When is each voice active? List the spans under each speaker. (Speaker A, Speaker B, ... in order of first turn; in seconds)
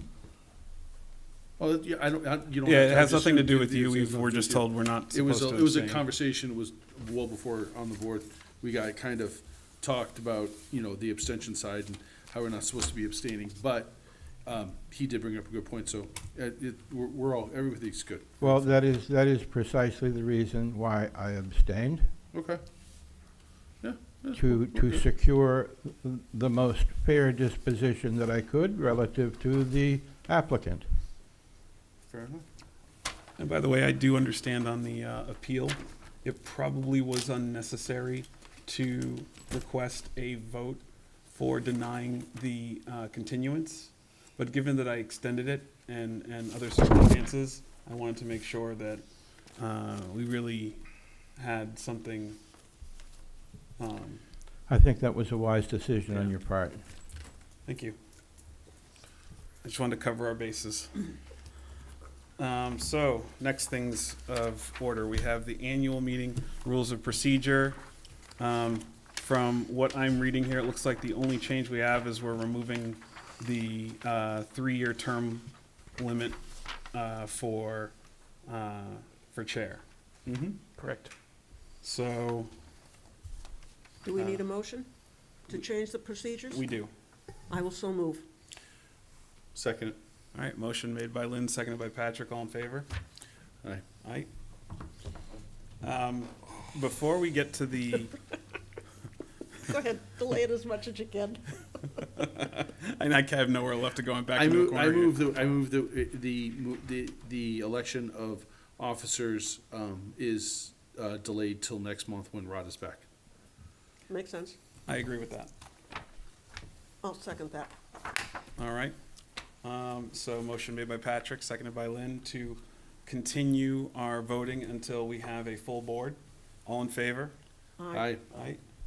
Speaker A: 1.6-18.8, 22.3-22.6, 23.8-25.0, 32.1-32.5, 80.3-80.6, 89.5-90.0, 104.4-113.0, 127.9-128.2
Speaker B: 2.6-6.0, 33.4-50.8, 51.3-52.4, 53.8-54.2, 57.7-58.0, 59.6-61.0, 62.4-67.8, 68.4-76.4, 76.9-79.8, 80.8-81.1, 81.8-82.5, 86.5-86.9, 90.3-92.9, 94.0-94.3, 95.8-98.2, 102.1-105.2, 114.9-115.5, 118.6-119.0, 119.6-127.3, 128.3-128.6
Speaker C: 18.4-22.1, 24.4-30.9, 54.7-56.8
Speaker D: 84.0-84.9, 85.5-86.6, 87.5-88.2, 99.7-101.9, 114.1-114.6, 117.0-117.7, 127.8-128.1